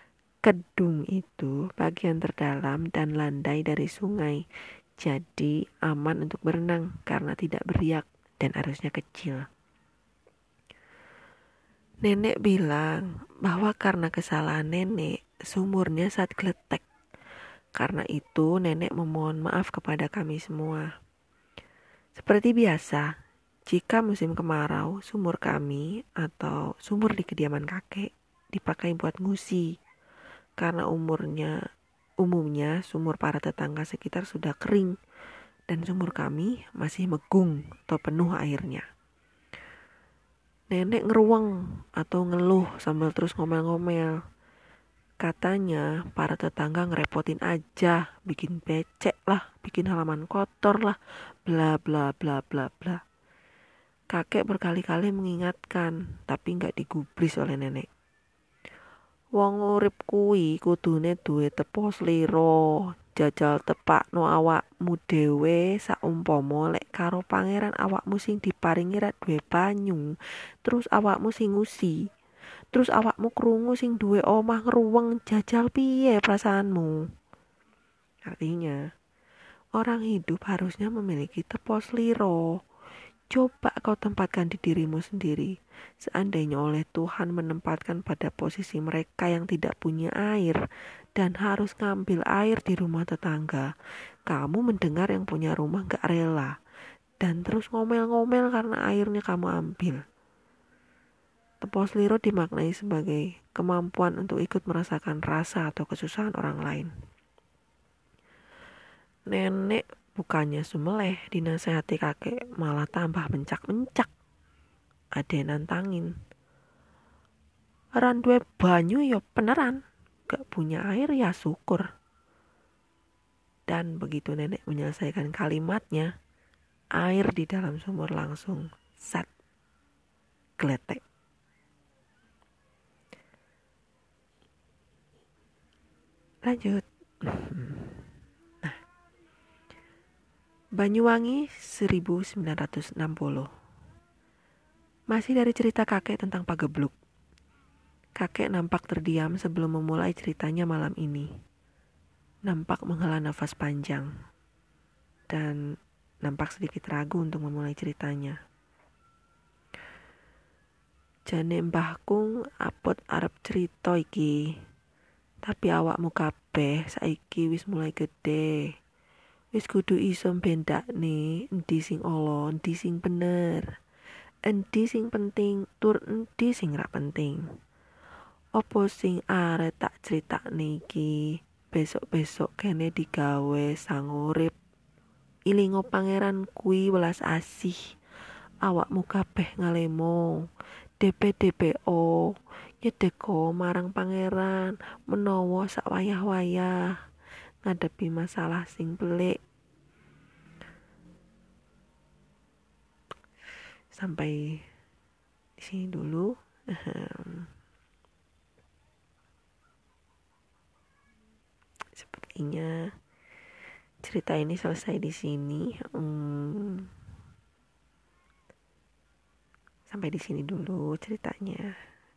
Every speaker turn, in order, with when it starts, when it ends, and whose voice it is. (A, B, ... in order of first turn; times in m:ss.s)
0:00.4-0:04.4 A
0:05.0-0:09.5 A
0:12.0-0:16.8 A
0:17.8-0:20.9 A
0:22.2-0:23.1 A
0:23.7-0:29.7 A
0:30.6-0:31.6 A
0:32.2-0:34.9 A
0:35.7-0:38.8 A
0:40.7-0:44.2 A
0:45.2-0:53.0 A
0:54.1-0:57.9 A
0:59.4-1:10.1 A
1:10.6-1:12.0 A
1:12.7-1:17.0 A
1:18.3-1:18.8 A
1:19.8-1:22.5 A
1:23.3-1:30.6 A
1:31.2-1:33.7 A
1:34.3-1:36.5 A
1:37.2-1:40.0 A
1:41.6-1:46.9 A
1:49.3-1:54.1 A
1:55.2-1:56.2 A
1:58.0-2:01.9 A
2:03.7-2:06.1 A
2:07.0-2:09.3 A
2:10.6-2:11.0 A
2:16.4-2:18.0 A
2:20.8-2:23.5 A
2:25.1-2:26.9 A
2:28.2-2:31.3 A
2:32.5-2:34.1 A
2:35.3-2:35.6 A
2:36.2-2:38.4 A
2:41.3-2:44.4 A
2:45.4-2:48.6 A
2:49.5-2:53.7 A
2:54.5-2:57.4 A
2:58.6-3:04.6 A
3:05.5-3:07.8 A
3:08.6-3:10.4 A
3:11.0-3:12.2 A
3:12.8-3:16.8 A
3:17.6-3:19.4 A
3:23.9-3:24.4 A
3:25.6-3:27.5 A
3:32.0-3:32.7 A
3:34.0-3:36.9 A
3:39.9-3:41.7 A